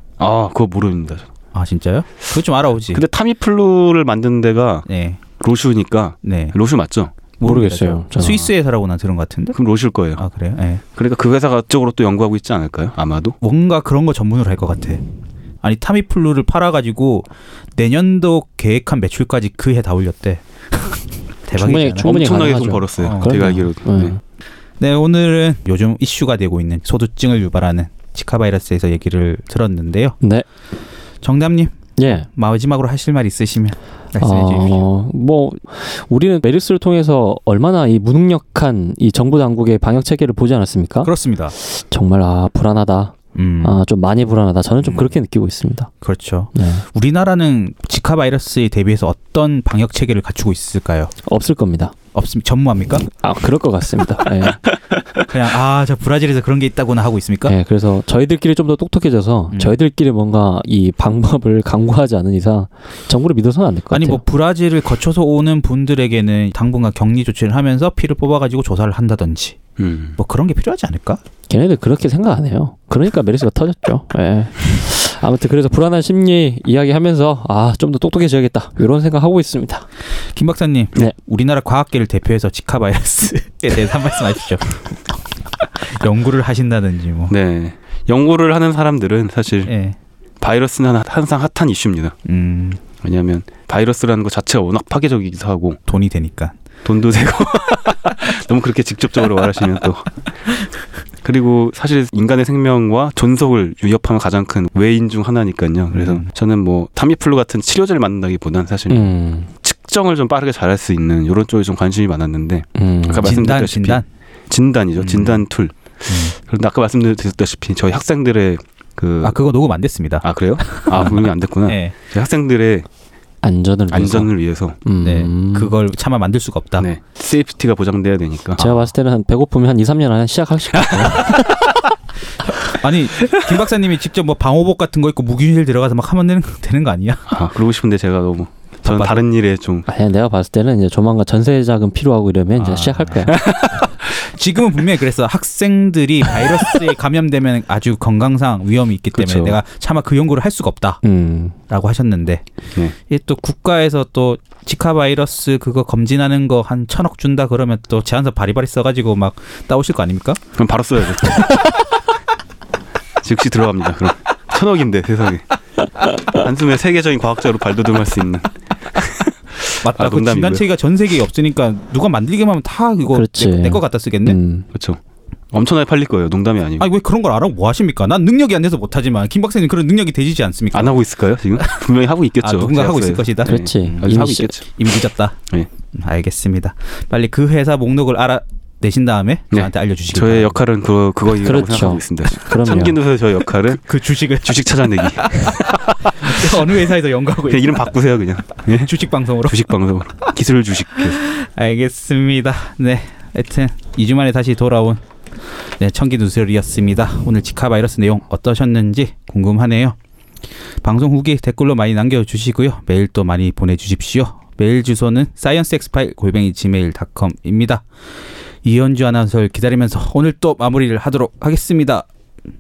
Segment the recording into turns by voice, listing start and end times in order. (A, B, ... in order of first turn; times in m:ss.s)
0:00.2-0:01.3 A
0:01.5-0:03.0 B
0:02.9-0:04.9 A
0:04.9-0:05.2 B
0:05.4-0:07.1 A
0:06.2-0:06.6 B
0:07.4-0:09.6 B
0:07.4-0:08.5 C
0:09.5-0:10.2 A
0:10.2-0:10.8 B
0:11.0-0:13.4 A
0:13.4-0:15.0 B
0:15.6-0:22.1 B
0:21.5-0:24.2 C
0:22.0-0:24.2 A
0:23.0-0:23.6 B
0:24.8-0:30.2 B
0:30.2-0:30.5 C
0:31.2-0:34.8 B
0:32.0-0:32.3 C
0:34.2-0:45.9 C
0:41.0-0:41.6 B
0:43.4-0:43.8 B
0:46.0-0:51.1 B
0:46.6-0:46.8 C
0:51.2-0:52.0 C
0:52.1-0:53.0 B
0:53.0-0:54.6 C
0:55.3-0:57.6 B
0:57.5-1:04.2 C
0:59.5-0:59.8 B
1:03.9-1:09.6 B
1:09.8-1:10.2 A
1:10.2-1:11.2 B
1:11.5-1:19.8 C
1:20.4-1:27.4 B
1:27.3-1:29.7 A
1:29.7-1:30.0 B
1:30.4-1:32.2 A
1:32.3-1:32.8 B
1:33.0-1:35.8 A
1:35.9-1:36.6 B
1:36.8-1:40.1 A
1:41.2-1:59.4 A
1:45.9-1:46.3 B
1:48.9-1:49.5 C
1:52.8-1:53.4 C
1:53.2-1:54.1 B
1:55.0-1:55.4 B
1:56.1-1:56.4 B
1:59.2-2:02.0 B
2:00.2-2:02.9 A
2:03.4-2:04.3 C
2:03.9-2:04.8 A
2:04.8-2:05.8 C
2:05.0-2:06.9 B
2:06.8-2:08.8 A
2:08.6-2:11.7 C
2:12.7-2:17.3 B
2:17.3-2:19.9 A
2:18.8-2:19.2 B
2:19.9-2:23.4 C
2:22.6-2:31.0 B
2:23.3-2:23.9 A
2:29.1-2:29.6 A
2:31.0-2:31.6 C
2:31.7-2:32.4 B
2:33.1-2:40.4 B
2:40.6-2:41.6 A
2:43.2-2:45.4 A
2:46.3-2:50.6 A
2:49.8-2:54.4 B
2:53.1-2:54.7 C
2:54.7-2:55.0 A
2:55.5-2:56.9 A
2:56.8-3:01.0 B
3:00.7-3:04.7 A
3:02.4-3:05.4 B
3:03.4-3:04.5 C
3:06.0-3:10.6 B
3:09.5-3:13.8 A
3:11.4-3:13.0 C
3:13.7-3:17.9 B
3:14.4-3:16.7 A
3:17.4-3:21.2 A
3:18.6-3:19.7 B
3:21.0-3:25.0 B
3:25.8-3:30.0 B
3:30.8-3:37.8 B
3:38.6-3:42.1 B